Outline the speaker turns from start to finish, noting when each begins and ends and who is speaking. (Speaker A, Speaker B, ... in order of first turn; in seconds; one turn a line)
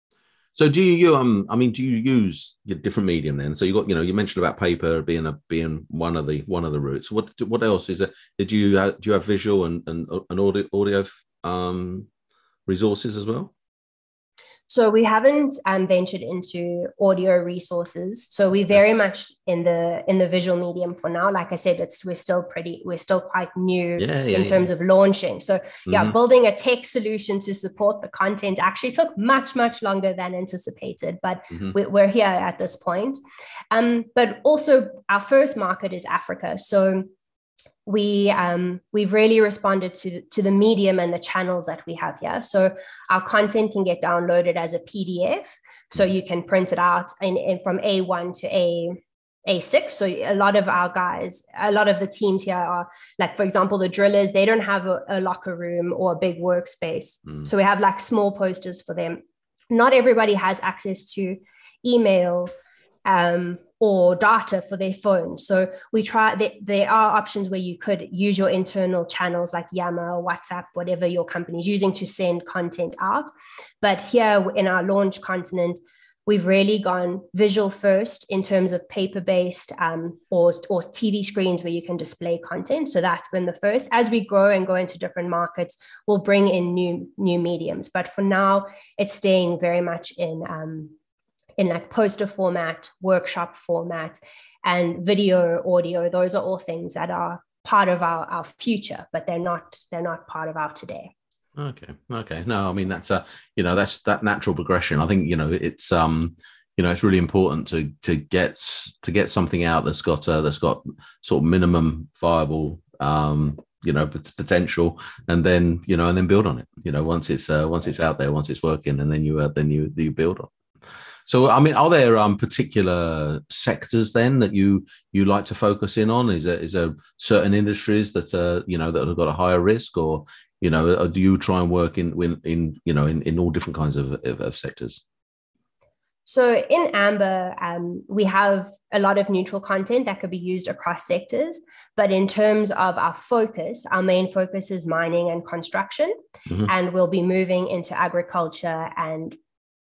Speaker A: 0.5-12.1
Speaker A: 12.7-13.5
Speaker B: 14.7-33.2
Speaker A: 24.0-24.6
Speaker A: 25.9-26.1
Speaker B: 33.7-37.1
Speaker B: 37.9-62.5
Speaker B: 63.0-73.3
Speaker B: 73.8-90.9
Speaker B: 91.6-101.1
Speaker A: 101.5-120.5
Speaker A: 121.3-135.0
Speaker B: 136.2-149.4